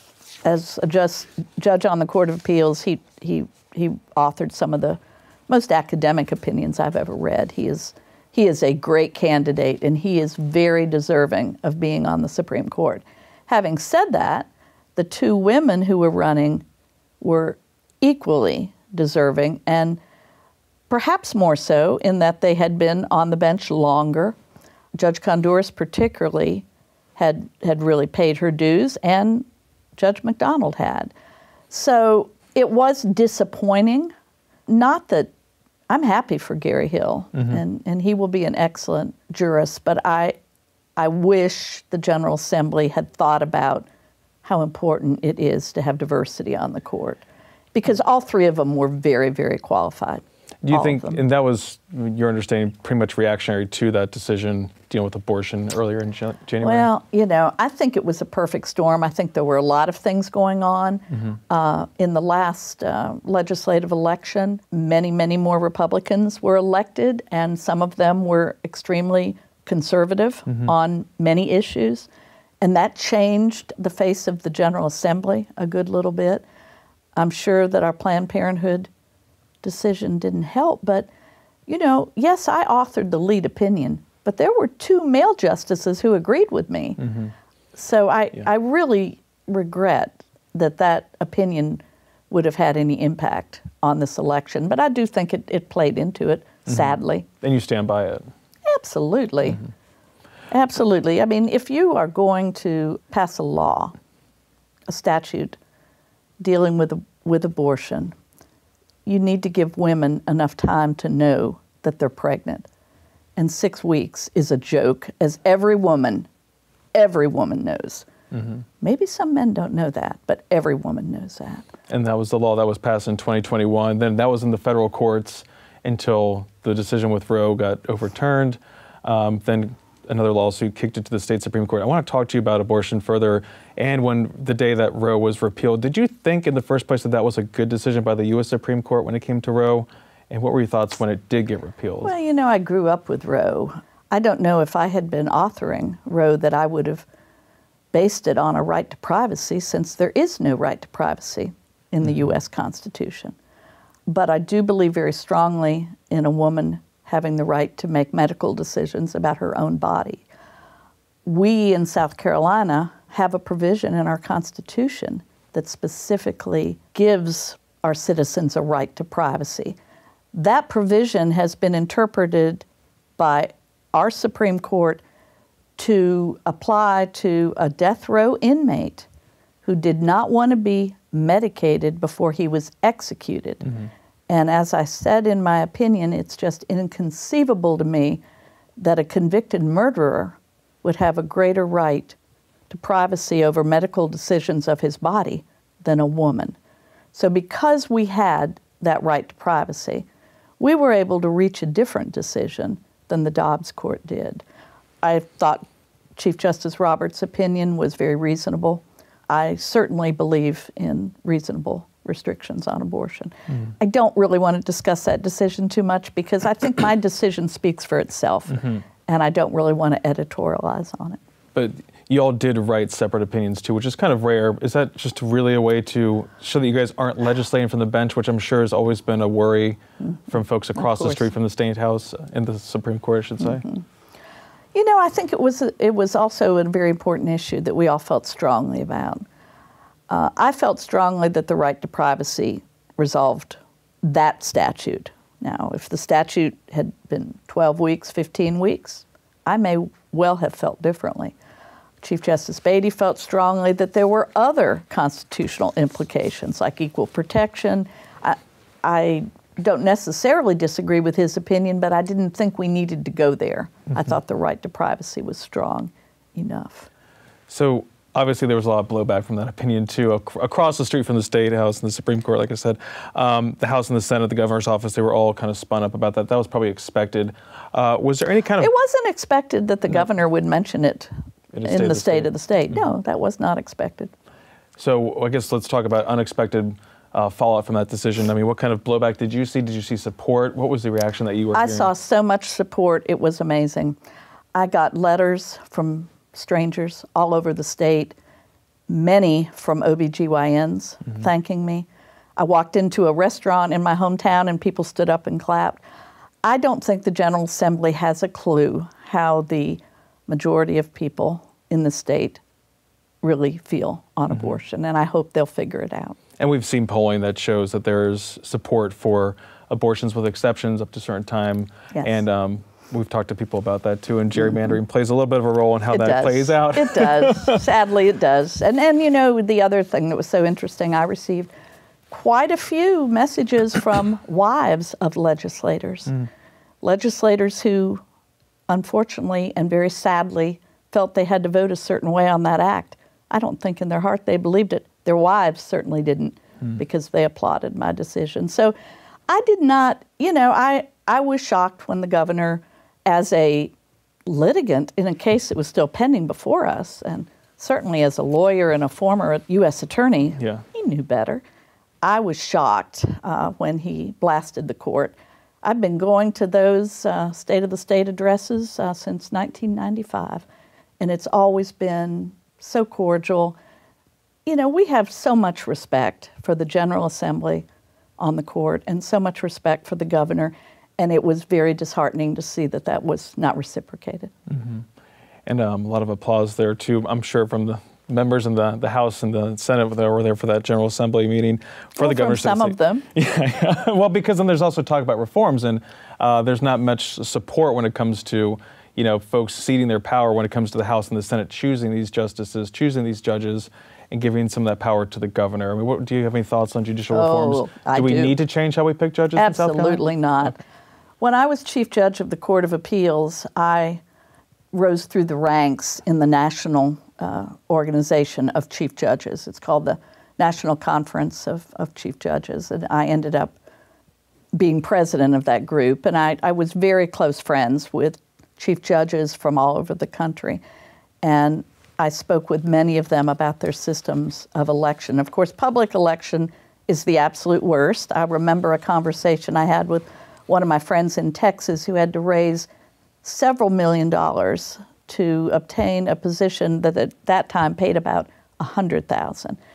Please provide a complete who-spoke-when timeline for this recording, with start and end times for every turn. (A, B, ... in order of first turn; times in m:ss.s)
0:00.4-0:16.6 A
0:17.2-0:20.0 A
0:20.9-0:24.4 A
0:25.0-0:26.6 A
0:27.2-0:29.4 A
0:30.0-0:31.1 A
0:31.7-0:34.1 A
0:34.7-0:35.3 A
0:35.9-0:40.4 A
0:41.0-0:43.9 A
0:44.4-0:51.2 A
0:50.6-0:56.9 B
0:56.6-1:12.1 A
1:12.6-1:16.4 A
1:17.1-1:18.9 A
1:19.6-1:21.1 A
1:21.7-1:37.3 A
1:37.4-1:38.3 B
1:38.6-1:39.6 A
1:40.5-1:43.9 A
1:44.9-1:45.6 A
1:46.4-1:48.1 A
1:49.0-1:52.7 A
1:53.4-1:56.3 A
1:56.9-1:58.1 A
1:58.8-2:01.7 A
2:01.9-2:22.1 B
2:22.0-2:27.0 A
2:27.9-2:33.3 A
2:34.1-2:40.2 A
2:41.2-2:49.8 A
2:50.3-2:52.6 A
2:53.2-2:55.0 A
2:55.8-2:59.1 A
2:59.6-3:03.7 A
3:04.3-3:08.2 A
3:08.8-3:12.2 A
3:12.7-3:16.6 A
3:17.1-3:20.0 A
3:20.6-3:24.4 A
3:25.0-3:25.6 A
3:26.2-3:41.2 A
3:41.5-3:53.6 B
3:50.8-3:51.2 A
3:54.7-3:59.2 A
4:00.1-4:11.3 A
4:12.0-4:26.9 A
4:27.5-4:38.7 B
4:38.6-4:41.1 A
4:41.5-4:42.3 B
4:41.6-4:44.1 A
4:44.8-4:51.9 B
4:51.5-4:54.0 A
4:54.5-4:58.1 A
4:58.9-5:05.8 A
5:06.4-5:12.4 A
5:13.2-5:16.2 A
5:16.4-5:27.6 B
5:25.9-5:31.5 A
5:32.1-5:36.2 A
5:36.8-5:38.0 A
5:38.7-5:48.7 A
5:49.3-5:53.7 A
5:54.2-6:01.4 A
6:00.4-6:00.6 B
6:02.0-6:10.4 A
6:11.0-6:13.6 A
6:14.4-6:17.6 A
6:18.2-6:24.3 A
6:24.5-6:24.8 B
6:25.4-6:50.0 B
6:32.0-6:33.1 A
6:47.1-6:48.4 A
6:49.4-6:50.6 A
6:51.2-6:54.0 A
6:54.7-7:03.5 A
7:04.5-7:10.6 A
7:11.2-7:22.7 A
7:23.2-7:29.6 A